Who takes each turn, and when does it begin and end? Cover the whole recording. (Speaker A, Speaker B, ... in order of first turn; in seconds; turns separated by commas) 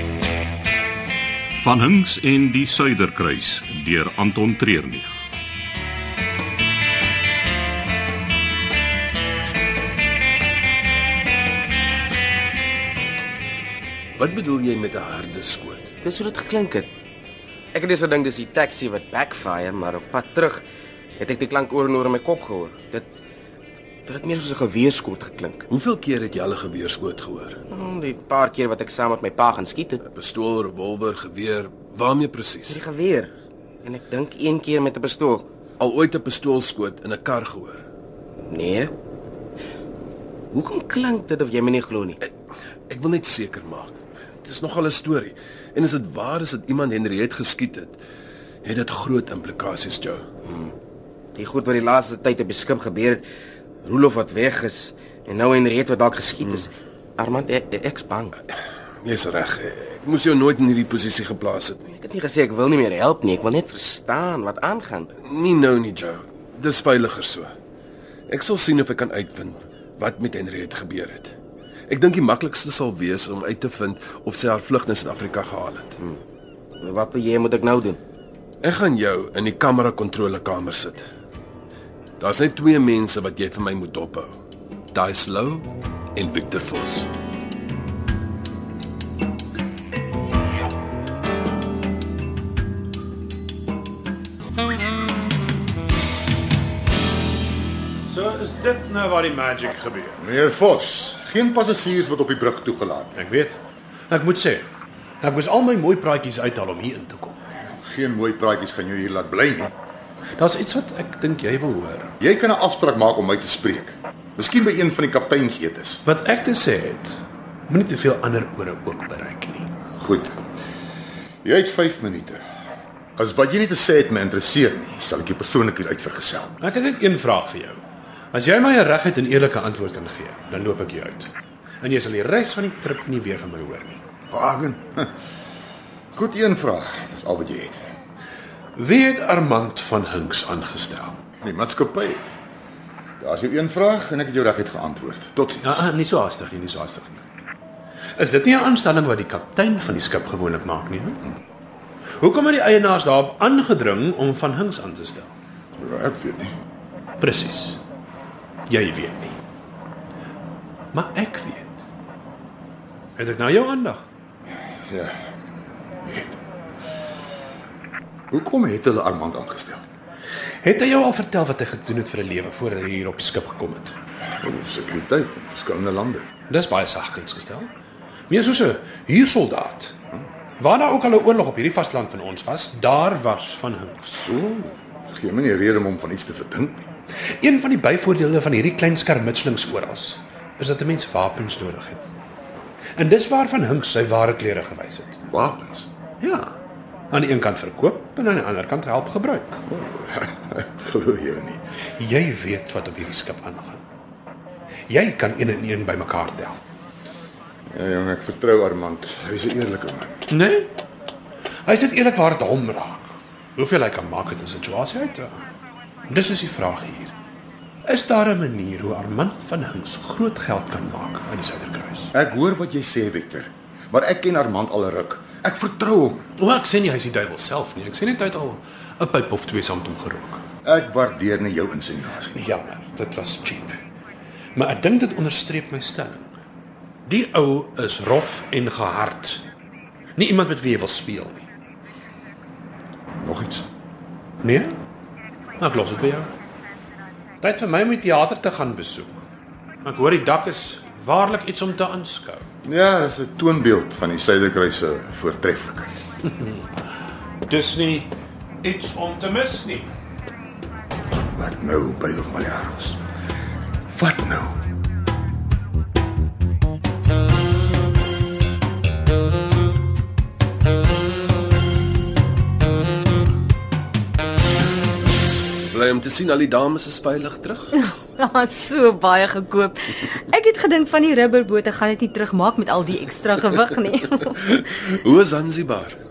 Speaker A: 1.6-5.1, Speaker B: 14.2-15.9, Speaker C: 16.0-16.9, Speaker C: 17.7-20.6, Speaker C: 21.2-23.1, Speaker C: 24.1-25.6, Speaker B: 25.7-27.6, Speaker C: 27.7-30.0, Speaker B: 30.1-32.8, Speaker C: 32.7-33.3, Speaker C: 33.8-35.5, Speaker B: 35.8-37.8, Speaker C: 38.5-38.9, Speaker C: 40.5-42.2, Speaker B: 42.9-48.0, Speaker B: 48.6-50.2, Speaker C: 50.5-50.7, Speaker C: 51.4-53.2, Speaker C: 53.8-58.3, Speaker B: 58.5-61.9, Speaker C: 61.9-65.1, Speaker B: 65.2-67.5, Speaker B: 68.3-71.3, Speaker B: 71.9-76.0, Speaker C: 76.8-78.0, Speaker B: 78.6-81.0, Speaker B: 82.2-84.3, Speaker B: 84.9-87.1, Speaker D: 98.1-100.2, Speaker E: 100.2-103.2, Speaker D: 103.2-103.6, Speaker D: 104.1-104.6, Speaker D: 105.2-107.4, Speaker E: 107.7-109.7, Speaker D: 110.4-112.2, Speaker E: 112.2-116.0, Speaker D: 116.0-119.7, Speaker E: 120.0-120.3, Speaker E: 121.4-122.4, Speaker E: 123.2-126.5, Speaker D: 126.6-127.8, Speaker D: 128.3-131.3, Speaker D: 131.8-134.0, Speaker E: 134.3-135.1, Speaker E: 136.1-137.8, Speaker D: 138.8-141.2, Speaker E: 141.4-142.3, Speaker E: 143.2-145.8, Speaker D: 145.6-147.2, Speaker D: 148.2-151.2, Speaker D: 152.2-155.3, Speaker E: 155.8-156.5, Speaker D: 157.2-157.8, Speaker D: 158.7-159.4, Speaker D: 160.9-161.8, Speaker D: 163.2-164.0, Speaker E: 164.9-165.2, Speaker E: 166.0-166.4, Speaker E: 168.3-169.8, Speaker D: 170.6-173.9, Speaker E: 174.4-176.3, Speaker D: 176.5-177.7, Speaker D: 178.3-179.9, Speaker D: 180.6-184.2, Speaker E: 184.2-186.9, Speaker D: 187.4-192.1, Speaker D: 192.9-195.2, Speaker E: 195.3-195.9, Speaker D: 196.2-196.5, Speaker D: 197.1-199.6, Speaker E: 199.7-201.6, Speaker D: 202.0-203.8, Speaker D: 204.9-206.6, Speaker E: 207.7-210.2, Speaker D: 210.3-210.7, Speaker D: 211.7-215.3, Speaker D: 216.1-217.1, Speaker D: 217.8-222.1, Speaker E: 222.1-226.3, Speaker D: 226.4-230.4, Speaker E: 230.6-232.5, Speaker D: 232.4-233.8, Speaker D: 234.5-236.3, Speaker D: 237.1-239.4, Speaker D: 240.2-241.5, Speaker E: 243.2-243.7, Speaker D: 244.4-244.7, Speaker D: 245.6-246.3, Speaker D: 247.4-249.2, Speaker D: 249.8-252.4, Speaker E: 252.6-255.9, Speaker D: 257.5-258.1, Speaker D: 258.6-259.9, Speaker E: 261.3-263.0, Speaker E: 263.9-264.6, Speaker B: 275.6-277.7, Speaker F: 277.7-284.6, Speaker B: 284.2-286.0